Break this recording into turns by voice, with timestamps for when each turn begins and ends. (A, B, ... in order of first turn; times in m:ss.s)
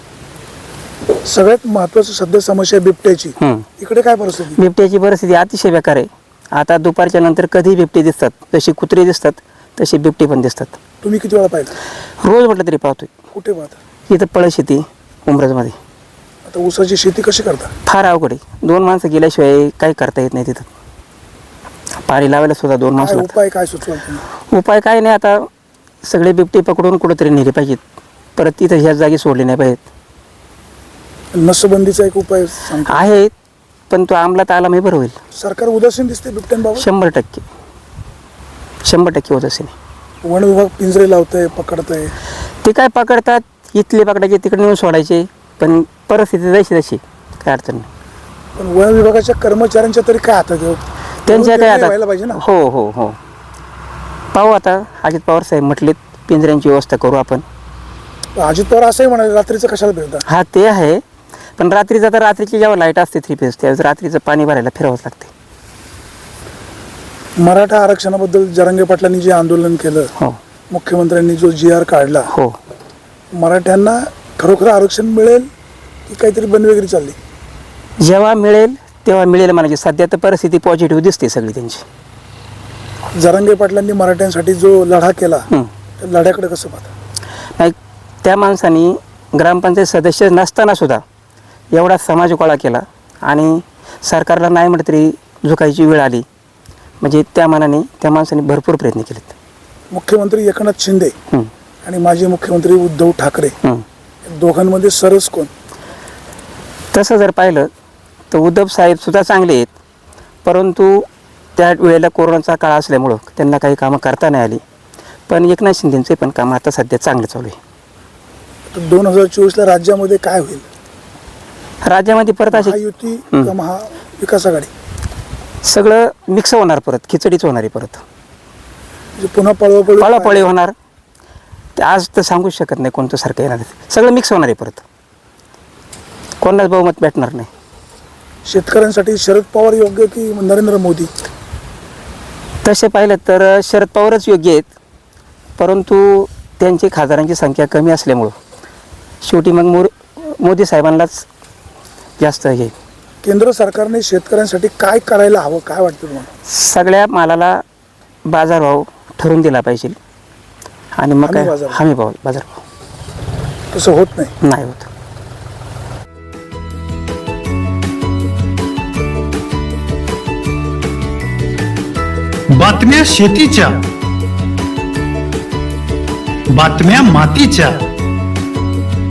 0:01.2-0:04.6 A
0:03.4-0:03.7 B
0:04.6-0:10.8 B
0:11.0-0:11.7 A
0:12.2-0:13.1 B
0:13.3-0:13.8 A
0:14.1-0:15.8 B
0:16.5-0:17.7 A
0:17.9-0:20.7 B
0:22.0-0:23.3 B
0:23.0-0:24.2 A
0:24.5-0:25.5 B
0:26.0-0:27.8 B
0:28.4-0:29.8 B
0:31.3-0:33.1 A
0:32.9-0:33.3 B
0:33.9-0:35.2 B
0:35.4-0:36.9 A
0:36.8-0:37.5 B
0:38.8-0:39.7 B
0:40.2-0:42.1 A
0:42.6-0:47.9 B
0:48.6-0:52.4 A
0:51.3-0:53.2 B
0:54.3-0:57.4 B
0:58.4-1:00.2 A
1:00.3-1:01.0 B
1:01.6-1:05.3 B
1:07.4-1:10.1 A
1:10.7-1:12.3 A
1:13.4-1:15.5 A
1:16.1-1:17.2 A
1:18.0-1:21.8 B
1:23.2-1:25.5 A
1:26.0-1:26.9 A
1:27.6-1:31.0 B
1:31.7-1:36.2 B
1:37.0-1:39.4 B
1:39.9-1:41.1 A
1:41.8-1:43.6 A
1:44.2-1:45.5 A
1:46.9-1:47.7 B
1:48.3-1:49.7 B
1:50.4-1:51.0 B
1:51.6-1:54.6 B
1:55.3-1:57.6 B
1:58.7-2:00.6 A
2:01.8-2:02.8 B
2:02.5-2:04.7 A
2:05.6-2:08.0 B
2:09.2-2:10.5 A
2:10.0-2:10.7 B
2:11.8-2:14.8 B
2:16.4-2:17.5 B
2:18.5-2:21.1 A
2:22.6-2:24.7 B
2:25.6-2:28.4 B
2:29.2-2:31.3 B
2:32.2-2:32.7 B
2:33.2-2:36.3 A
2:36.5-2:37.6 B
2:38.3-2:40.0 B
2:41.0-2:42.6 B
2:41.2-2:41.8 A
2:43.7-2:44.4 A
2:44.4-2:44.9 B
2:52.6-2:53.8 C
2:56.5-2:57.9 C